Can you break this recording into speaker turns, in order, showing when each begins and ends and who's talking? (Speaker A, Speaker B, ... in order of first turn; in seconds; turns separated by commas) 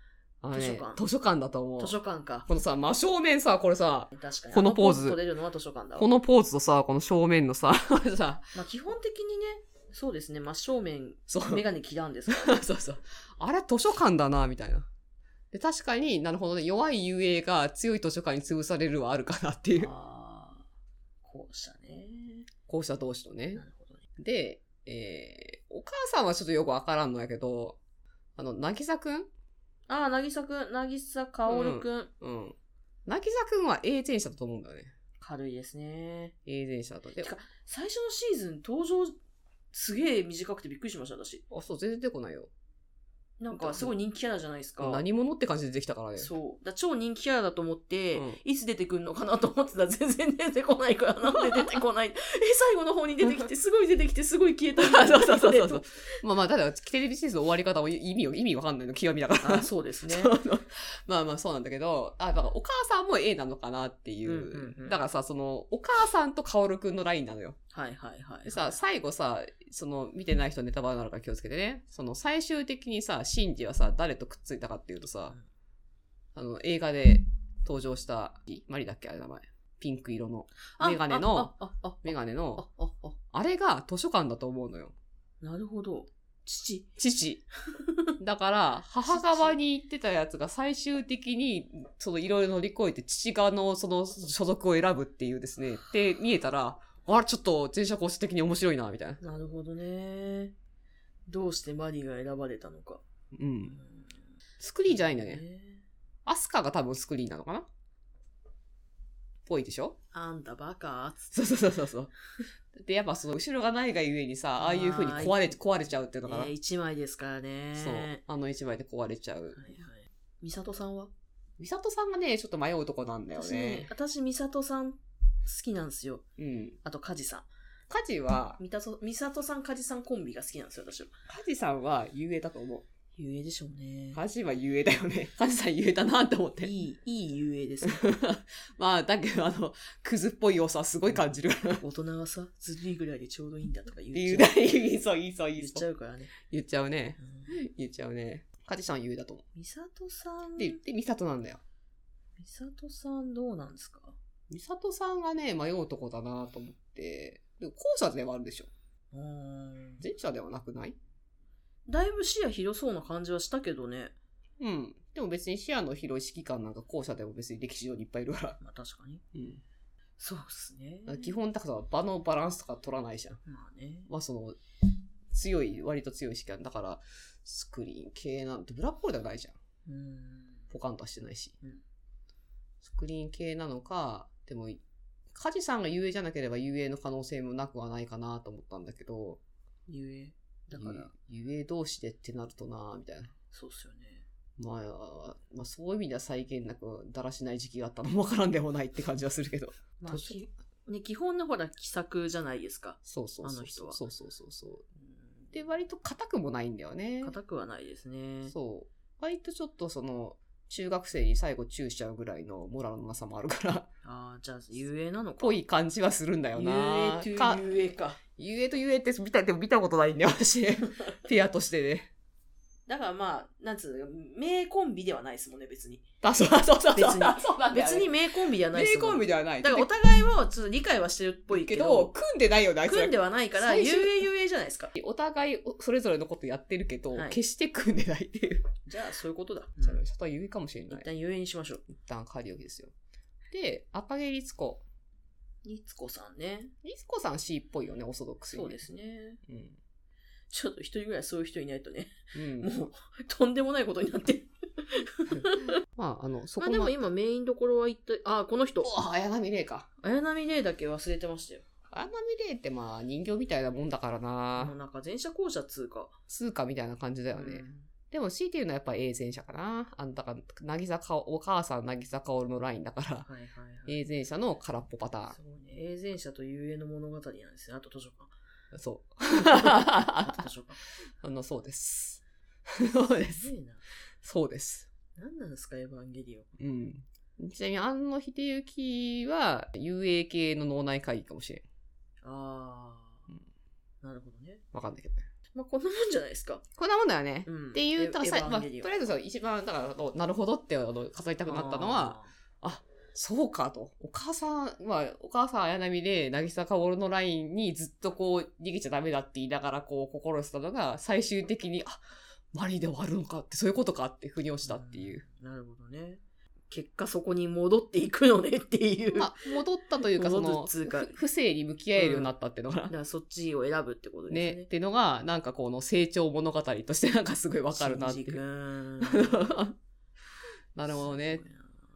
Speaker A: 0.4-5.2, Speaker B: 0.5-1.0, Speaker B: 1.8-2.5, Speaker B: 4.1-6.1, Speaker A: 6.0-8.5, Speaker B: 8.5-12.6, Speaker A: 11.3-11.6, Speaker A: 12.3-14.9, Speaker A: 15.5-19.9, Speaker B: 19.8-20.6, Speaker B: 21.2-22.5, Speaker A: 22.7-23.6, Speaker B: 23.6-24.0, Speaker A: 24.2-27.8, Speaker A: 28.4-29.3, Speaker B: 29.9-32.1, Speaker A: 31.5-34.9, Speaker B: 35.2-36.3, Speaker A: 36.5-37.3, Speaker B: 37.2-39.1, Speaker B: 39.7-41.4, Speaker A: 41.5-42.5, Speaker B: 43.4-45.0, Speaker A: 43.5-43.9, Speaker A: 44.8-46.3, Speaker B: 46.2-56.1, Speaker A: 48.1-48.4, Speaker A: 54.8-67.6, Speaker B: 59.4-60.3, Speaker B: 64.2-65.0, Speaker B: 67.7-68.7, Speaker A: 68.4-75.3, Speaker A: 76.3-82.7, Speaker B: 80.7-83.2, Speaker A: 83.3-84.9, Speaker B: 85.4-86.9, Speaker A: 87.0-87.4, Speaker B: 87.7-88.1, Speaker A: 88.2-99.2, Speaker B: 89.1-89.5, Speaker B: 99.2-100.5, Speaker B: 101.3-103.0, Speaker A: 103.3-103.8, Speaker B: 103.7-104.1, Speaker A: 104.6-105.4, Speaker B: 104.9-105.8, Speaker A: 106.2-107.7, Speaker A: 109.5-110.0, Speaker B: 110.1-111.3, Speaker A: 111.3-112.1, Speaker A: 112.7-116.5, Speaker B: 114.6-115.5, Speaker B: 116.2-118.2, Speaker A: 117.7-119.6, Speaker B: 119.5-121.1, Speaker A: 121.6-123.9, Speaker B: 123.3-126.2, Speaker A: 126.4-126.8, Speaker B: 126.8-127.5, Speaker A: 127.9-128.6, Speaker B: 128.6-131.1, Speaker A: 131.3-132.9, Speaker B: 133.2-134.2, Speaker A: 134.1-136.7, Speaker B: 136.6-138.0, Speaker A: 137.8-141.8, Speaker B: 141.8-144.6, Speaker A: 144.1-145.8, Speaker B: 145.6-146.3, Speaker A: 146.4-149.4, Speaker B: 147.2-147.5, Speaker B: 149.5-150.8, Speaker A: 150.6-151.6, Speaker B: 152.4-154.1, Speaker A: 154.5-158.7, Speaker B: 159.1-160.0, Speaker A: 160.0-161.0, Speaker B: 161.9-164.1, Speaker A: 164.6-168.6, Speaker B: 168.6-169.2, Speaker A: 169.3-169.6, Speaker B: 170.2-171.3, Speaker A: 171.1-173.4, Speaker B: 173.4-174.1, Speaker A: 174.1-174.6, Speaker A: 175.3-179.6, Speaker B: 179.8-180.6, Speaker A: 180.7-181.6, Speaker A: 182.8-184.8, Speaker A: 185.3-189.4, Speaker B: 189.9-191.1, Speaker A: 190.7-193.3, Speaker B: 193.5-194.2, Speaker A: 194.6-200.4, Speaker B: 200.0-204.0, Speaker A: 203.1-204.8, Speaker B: 205.2-205.5, Speaker A: 205.5-207.4, Speaker B: 207.2-208.5, Speaker A: 208.5-213.9, Speaker B: 214.0-215.6, Speaker A: 215.4-217.8, Speaker B: 216.5-218.2, Speaker A: 218.4-222.1, Speaker B: 222.9-226.0, Speaker A: 226.2-228.2, Speaker B: 226.9-232.1, Speaker A: 228.7-229.9, Speaker A: 231.5-234.2, Speaker B: 232.8-234.9, Speaker A: 234.9-238.7, Speaker B: 237.1-237.4, Speaker B: 238.8-240.0, Speaker A: 239.8-241.1, Speaker B: 240.9-241.8, Speaker A: 241.9-242.9, Speaker A: 243.5-244.8, Speaker B: 245.6-246.7, Speaker A: 246.8-248.8, Speaker B: 248.5-249.4, Speaker A: 249.5-249.8, Speaker B: 250.5-255.7, Speaker A: 252.3-252.7, Speaker A: 255.3-256.9, Speaker B: 256.6-258.9, Speaker A: 258.8-259.9, Speaker B: 260.0-261.6, Speaker A: 261.9-264.7, Speaker B: 264.5-266.1, Speaker A: 266.3-273.3, Speaker B: 267.3-267.9, Speaker B: 273.2-274.0, Speaker A: 273.9-275.4, Speaker B: 275.3-278.3, Speaker A: 278.7-280.4, Speaker B: 279.4-280.8, Speaker A: 281.2-282.2, Speaker A: 282.7-283.5, Speaker B: 283.3-283.8, Speaker A: 284.2-284.9, Speaker B: 285.1-286.5, Speaker A: 286.6-291.6, Speaker B: 292.2-293.2, Speaker B: 294.0-294.6, Speaker A: 294.7-295.2, Speaker B: 295.6-296.6, Speaker A: 296.8-315.2, Speaker B: 297.4-298.9, Speaker B: 301.4-302.3, Speaker B: 314.6-321.2, Speaker A: 319.1-322.9, Speaker B: 321.9-322.3, Speaker B: 322.9-324.7, Speaker A: 324.3-328.4, Speaker B: 327.8-329.4, Speaker A: 329.0-329.8, Speaker A: 330.8-331.4, Speaker B: 330.9-331.8